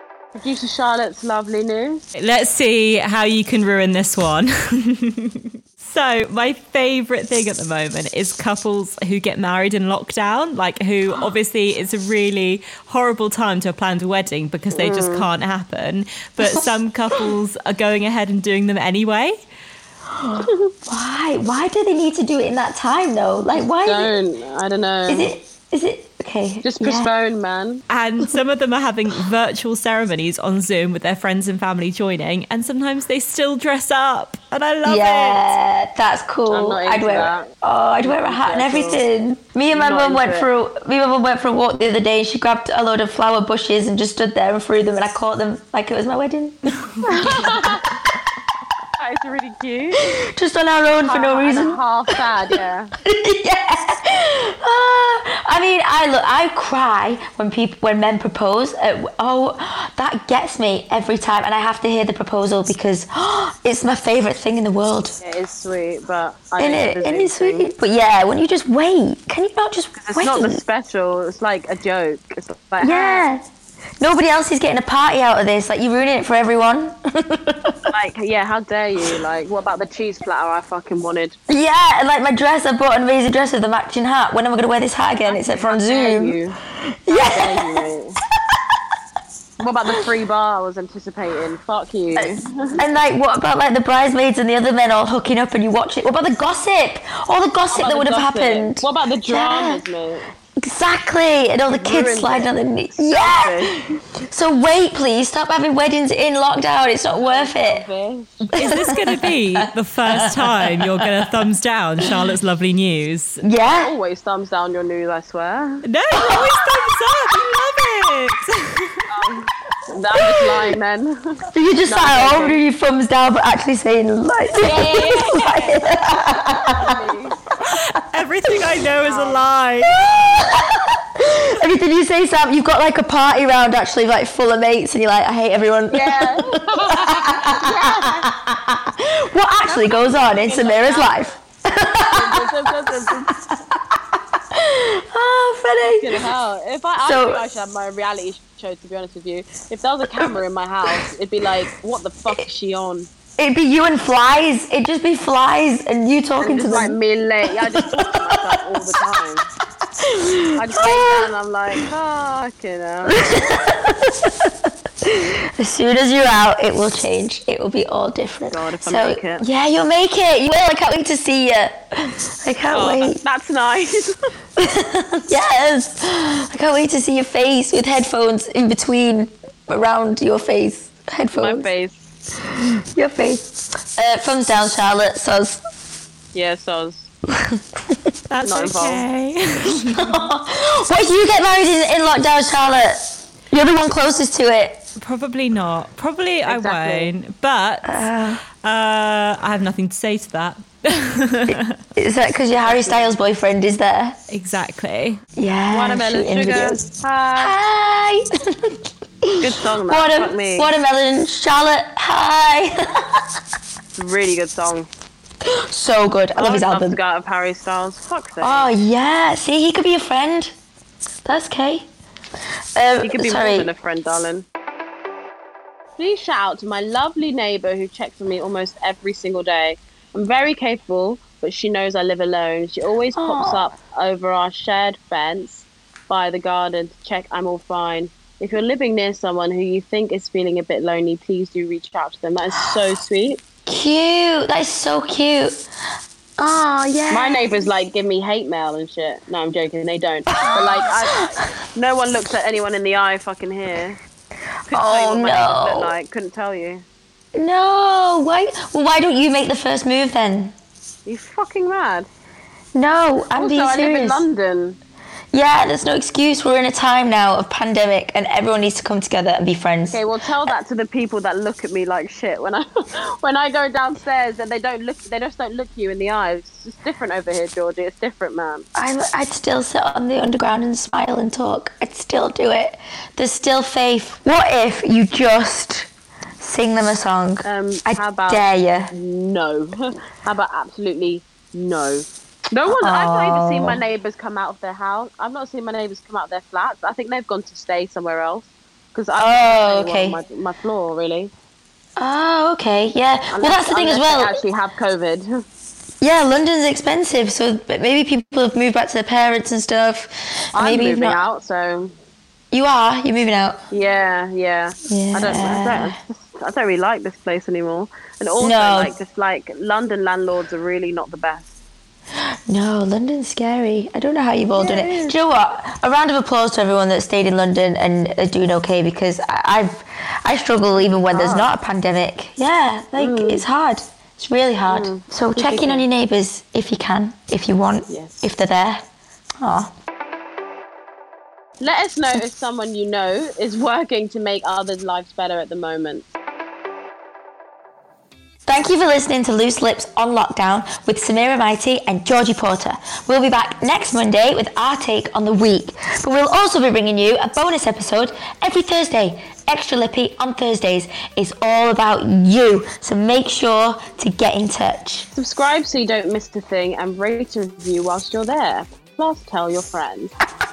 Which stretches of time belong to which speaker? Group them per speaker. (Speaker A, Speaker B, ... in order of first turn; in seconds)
Speaker A: 0.3-2.0, 14.7-15.3, 20.4-20.7, 23.8-25.3, 26.6-27.8, 36.5-37.5, 38.0-39.0, 39.7-40.5, 47.0-47.9, 49.0-50.1, 51.0-52.9, 65.2-67.7, 70.0-73.3, 77.9-81.4, 85.2-88.2, 89.6-92.8, 97.7-100.3, 101.7-104.0, 107.2-108.5, 113.8-115.8, 119.1-122.6, 124.6-127.4, 129.0-129.4, 135.9-138.3, 139.7-141.2, 142.1-143.3, 145.8-153.1, 156.4-159.5, 160.5-163.4, 168.5-169.4, 172.7-174.2, 181.4-182.2, 186.3-187.1, 188.4-189.1, 196.4-197.1, 202.7-203.1, 205.7-207.5, 209.4-210.7, 214.0-214.9, 216.3-218.7, 223.0-224.4, 226.0-243.4, 247.1-251.2, 251.7-254.0, 254.7-256.8, 261.1-262.1, 263.3-264.8, 269.9-278.7, 287.4-301.3, 303.3-305.4, 310.5-311.9, 313.7-321.5, 324.5-325.1, 330.8-331.5, 333.0-333.4, 334.7-335.8, 337.9-338.3, 341.6-346.1, 365.1-370.1
Speaker B: 2.1-19.4, 27.9-35.5, 108.5-113.4, 115.8-119.1, 127.7-130.1, 188.3-190.2, 195.0-198.1, 198.6-201.8, 204.3-205.2
Speaker C: 20.1-24.1, 25.1-27.1, 34.8-47.5, 50.1-51.8, 53.0-65.2, 66.6-70.6, 72.8-73.4, 74.0-77.9, 81.5-87.8, 92.2-99.8, 100.6-103.6, 104.3-107.8, 108.5-111.1, 113.4-113.9, 116.1-116.7, 121.5-126.9, 129.8-146.2, 147.0-147.4, 153.4-156.9, 157.5-159.0, 160.0-161.3, 163.1-173.2, 174.6-181.7, 182.4-185.6, 187.3-188.0, 189.9-194.8, 197.8-198.4, 201.5-204.2, 205.3-213.2, 215.4-217.0, 218.4-220.5, 221.2-221.9, 222.8-223.7, 233.2-233.7, 243.7-245.6, 246.4-247.4, 250.3-251.5, 254.7-255.9, 257.3-260.5, 262.7-264.2, 265.3-270.0, 278.8-285.9, 286.4-288.9, 292.7-293.8, 299.2-300.2, 302.0-304.4, 306.0-311.2, 312.5-313.6, 314.9-316.0, 318.4-318.9, 322.5-338.8, 339.4-339.7, 348.5-365.1